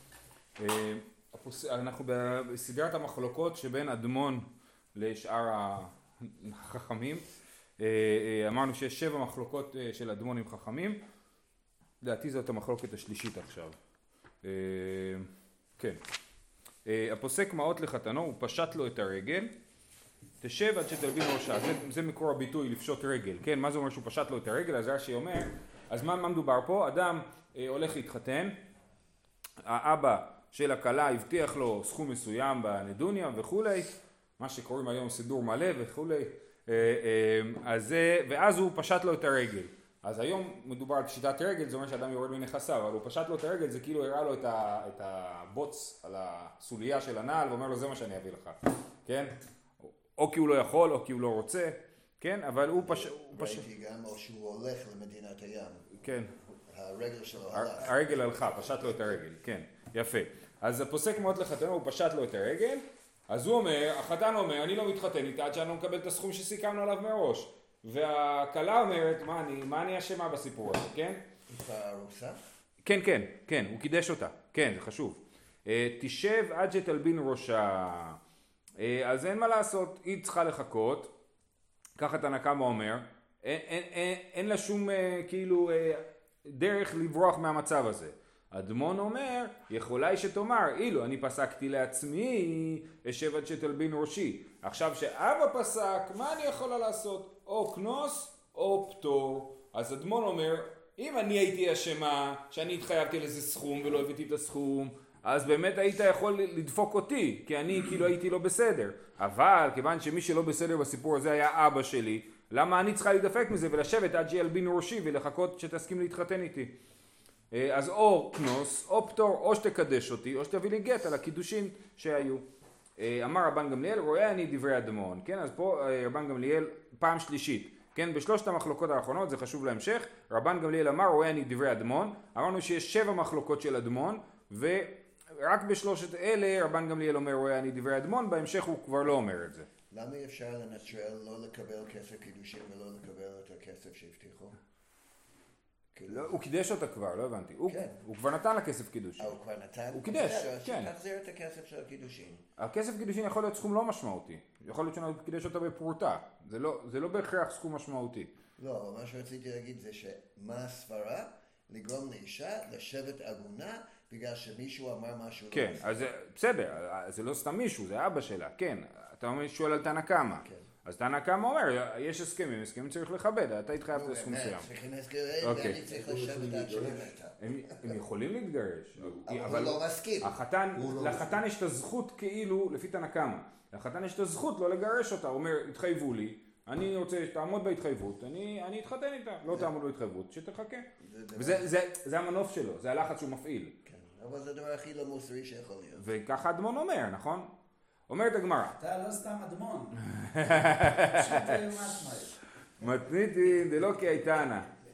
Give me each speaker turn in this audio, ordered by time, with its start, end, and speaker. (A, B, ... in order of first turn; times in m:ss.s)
0:00.6-0:07.2 A
0:07.8-0:11.0 A
0:12.0-0:13.8 A
0:14.4-0:16.0 A
0:16.8-0:19.5 A
0:20.4-0:28.6 A
0:29.6-0:53.6 A
0:52.8-0:55.9 B
0:55.9-0:56.3 A
0:56.6-0:59.1 B
0:57.5-1:11.2 A
1:11.5-1:12.4 B
1:12.8-1:18.2 A
1:18.8-1:21.1 A
1:22.0-1:56.7 A
1:57.5-2:02.4 A
2:03.0-2:19.7 A
2:19.9-2:24.6 B
2:25.9-2:26.4 B
2:26.1-2:29.4 A
2:27.7-2:28.0 B
2:29.2-2:32.5 B
2:29.9-2:30.9 A
2:32.6-2:38.3 A
2:38.6-2:46.0 B
2:45.5-2:54.7 A
2:53.9-2:58.0 B
2:55.4-2:55.8 A
2:57.4-3:13.8 A
2:59.2-3:01.3 B
3:11.0-3:11.7 B
3:13.9-3:16.0 B
3:16.0-3:17.5 A
3:18.1-3:18.8 A
3:18.8-3:20.0 C
3:20.0-3:21.5 A
3:20.6-3:22.4 C
3:22.8-3:24.7 A
3:22.9-3:23.6 B